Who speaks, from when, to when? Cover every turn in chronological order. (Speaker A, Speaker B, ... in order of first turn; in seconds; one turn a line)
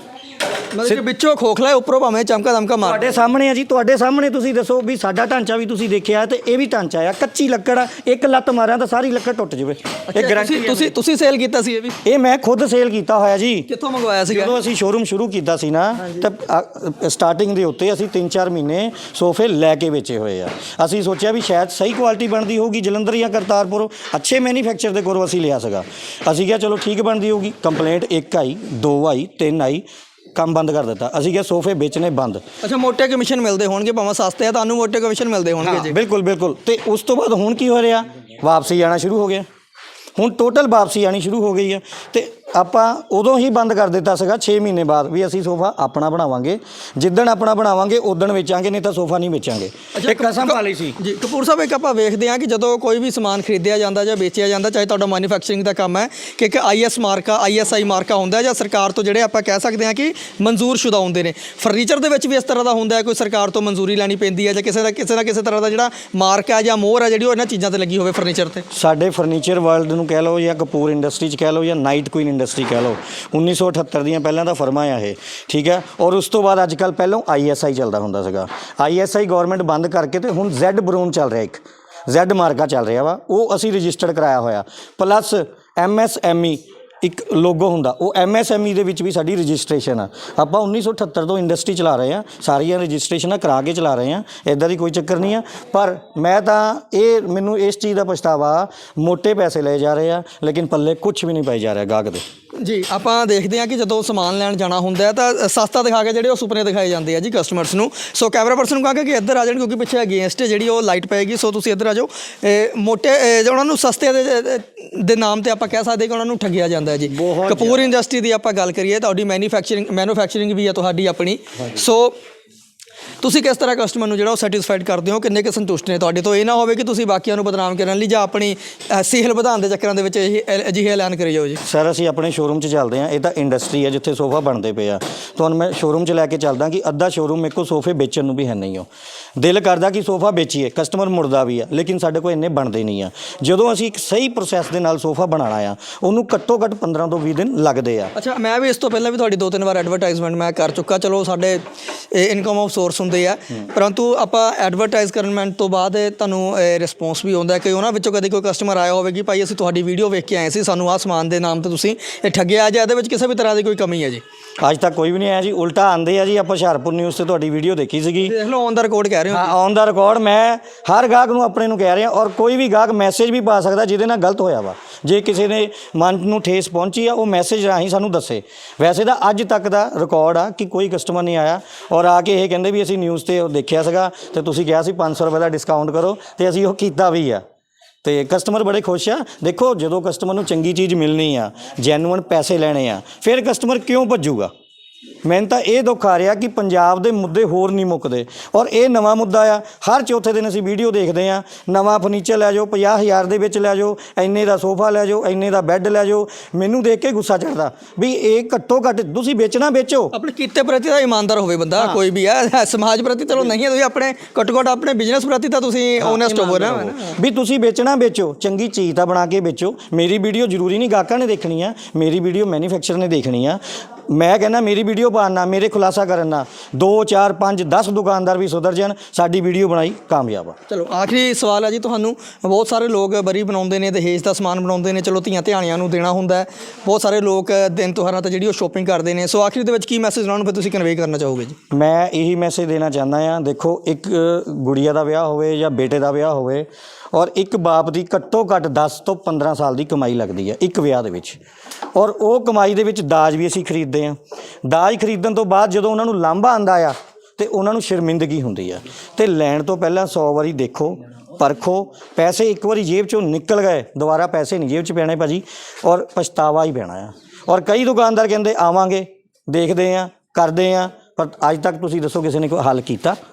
Speaker A: 0.7-3.0
Speaker B: 2.8-10.9
Speaker A: 10.1-12.0
Speaker B: 12.0-13.7
Speaker A: 13.7-14.6
Speaker B: 14.3-32.4
Speaker A: 32.6-35.9
Speaker B: 35.6-39.5
Speaker B: 40.1-51.0
Speaker A: 50.0-68.6
Speaker B: 68.7-102.2
Speaker A: 102.6-122.2
Speaker B: 117.1-117.9
Speaker A: 123.2-131.6
Speaker B: 131.6-148.1
Speaker A: 148.1-164.2
Speaker B: 164.6-168.3
Speaker A: 168.3-169.5
Speaker B: 169.3-187.4
Speaker B: 188.0-194.5
Speaker B: 195.2-210.1
Speaker A: 210.1-217.2
Speaker B: 216.0-230.6
Speaker A: 230.7-241.6
Speaker B: 241.7-251.4
Speaker B: 251.9-273.2